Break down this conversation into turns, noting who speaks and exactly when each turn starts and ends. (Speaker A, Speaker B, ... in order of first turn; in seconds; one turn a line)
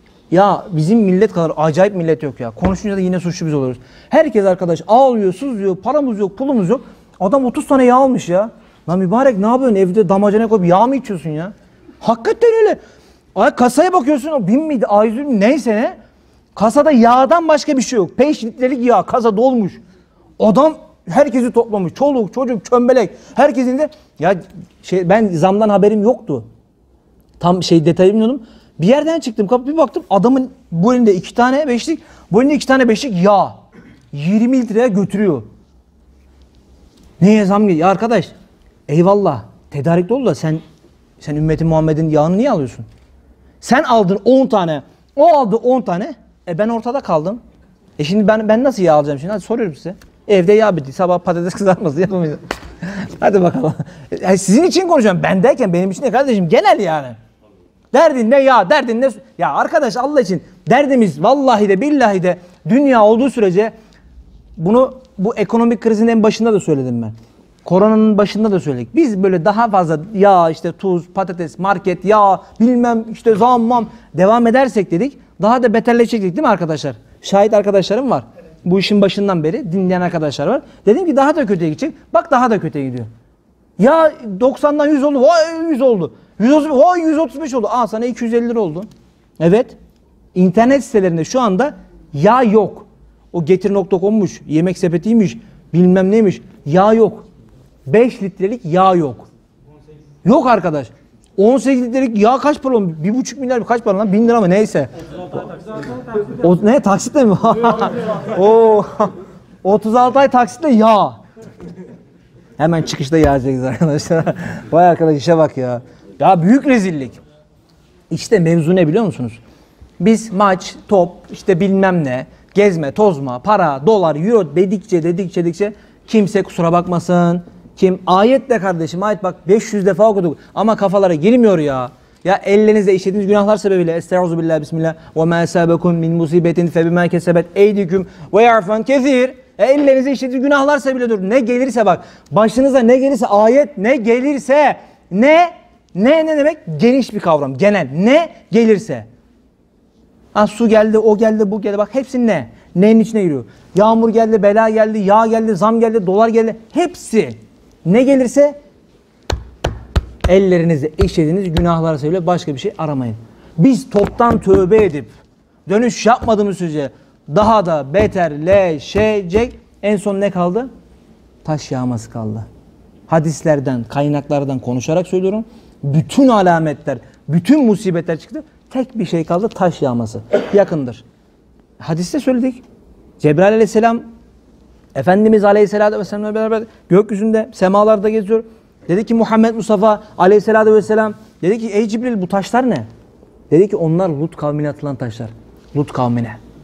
Speaker A: 0.3-12.8
Speaker A: 13.4-15.9
Speaker A: 16.6-19.8
Speaker A: 20.4-26.4
Speaker A: 27.4-33.6
Speaker A: 34.1-35.5
Speaker A: 37.2-38.3
Speaker A: 38.9-40.6
Speaker A: 41.2-42.9
Speaker A: 43.6-47.4
Speaker A: 48.0-57.2
Speaker A: 57.9-63.7
Speaker A: 64.6-67.1
Speaker A: 67.7-83.1
Speaker A: 83.8-88.9
Speaker A: 89.4-89.8
Speaker A: 90.3-97.3
Speaker A: 97.9-99.3
Speaker A: 100.2-104.9
Speaker A: 106.3-111.2
Speaker A: 112.6-117.2
Speaker A: 118.1-119.4
Speaker A: 120.0-149.1
Speaker A: 150.3-158.6
Speaker A: 160.3-165.1
Speaker A: 165.7-170.7
Speaker A: 171.4-172.5
Speaker A: 173.1-181.0
Speaker A: 181.8-182.6
Speaker A: 183.2-184.0
Speaker A: 184.9-192.9
Speaker A: 193.5-196.4